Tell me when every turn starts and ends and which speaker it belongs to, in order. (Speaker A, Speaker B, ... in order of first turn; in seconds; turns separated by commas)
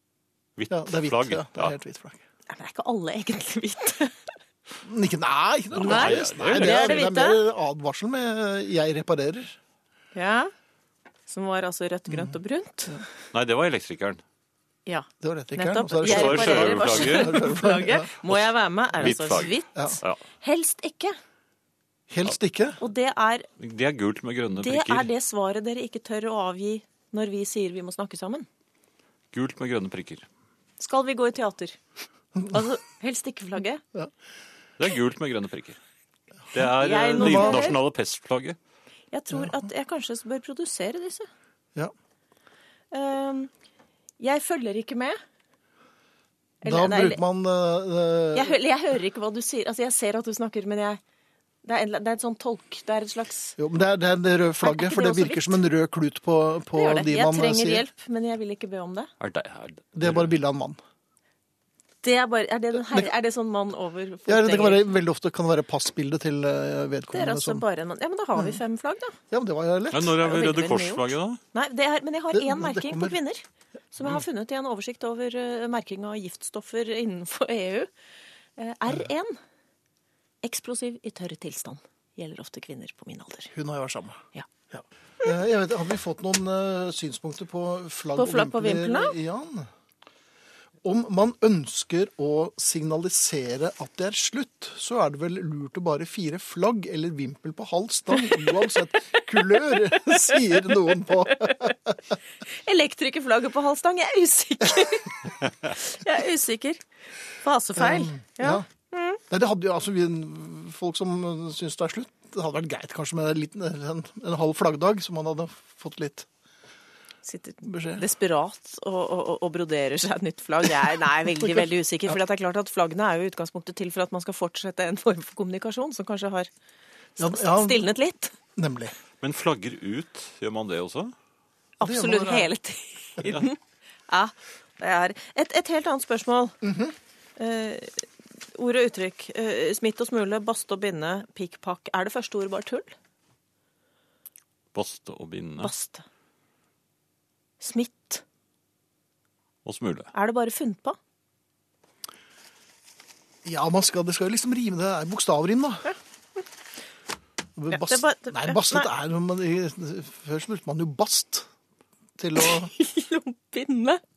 Speaker A: 0.6-1.8, Speaker B: 0.7-2.2, Speaker C: 2.5-4.2, Speaker B: 4.8-9.6, Speaker A: 5.7-7.0, Speaker C: 5.8-7.4, Speaker C: 10.2-10.5, Speaker C: 11.3-13.0, Speaker B: 12.1-12.3, Speaker A: 13.3-14.2, Speaker C: 14.9-21.1, Speaker B: 15.2-18.1, Speaker A: 16.0-17.4, Speaker A: 19.0-20.2, Speaker B: 19.7-20.0, Speaker B: 22.1-22.8, Speaker C: 22.8-23.5, Speaker A: 23.6-25.1, Speaker C: 24.6-28.5, Speaker A: 29.3-30.3, Speaker C: 30.8-31.8, Speaker C: 32.5-33.8, Speaker A: 34.8-35.8, Speaker A: 36.5-38.6, Speaker C: 36.8-37.8, Speaker B: 37.2-37.7, Speaker C: 39.1-41.3, Speaker C: 42.9-43.5, Speaker C: 44.2-45.2, Speaker C: 46.6-47.2, Speaker B: 46.6-48.5, Speaker C: 48.4-51.0, Speaker C: 51.6-53.6, Speaker B: 53.6-57.8, Speaker C: 54.6-55.6, Speaker C: 56.8-59.1, Speaker A: 59.2-60.3, Speaker B: 60.0-60.8, Speaker C: 62.0-64.8, Speaker B: 62.8-63.1, Speaker B: 64.3-67.6, Speaker C: 67.1-69.2, Speaker B: 69.3-70.1, Speaker A: 69.9-71.4, Speaker C: 70.2-77.9, Speaker B: 72.3-73.2, Speaker C: 78.6-79.4, Speaker C: 80.4-83.5, Speaker B: 83.5-84.2, Speaker B: 84.7-89.7, Speaker C: 88.2-89.2, Speaker B: 90.8-102.0, Speaker C: 98.2-98.5, Speaker C: 99.4-101.5, Speaker C: 102.5-106.8, Speaker C: 107.4-109.2, Speaker B: 107.8-108.7, Speaker B: 109.3-116.3, Speaker C: 117.2-126.5, Speaker B: 117.6-118.0, Speaker B: 121.4-122.2, Speaker B: 127.2-127.9, Speaker C: 127.2-128.3, Speaker B: 128.6-128.9, Speaker A: 129.2-131.1, Speaker C: 131.8-133.6, Speaker B: 131.8-132.5, Speaker C: 134.1-136.6, Speaker B: 136.6-136.9, Speaker C: 137.4-142.9, Speaker A: 144.7-145.7, Speaker C: 145.6-146.1, Speaker C: 147.6-148.2, Speaker A: 149.7-150.1, Speaker C: 150.1-151.0, Speaker B: 153.4-155.9, Speaker B: 157.6-161.5, Speaker C: 157.7-158.9, Speaker B: 162.2-162.7, Speaker C: 162.4-164.0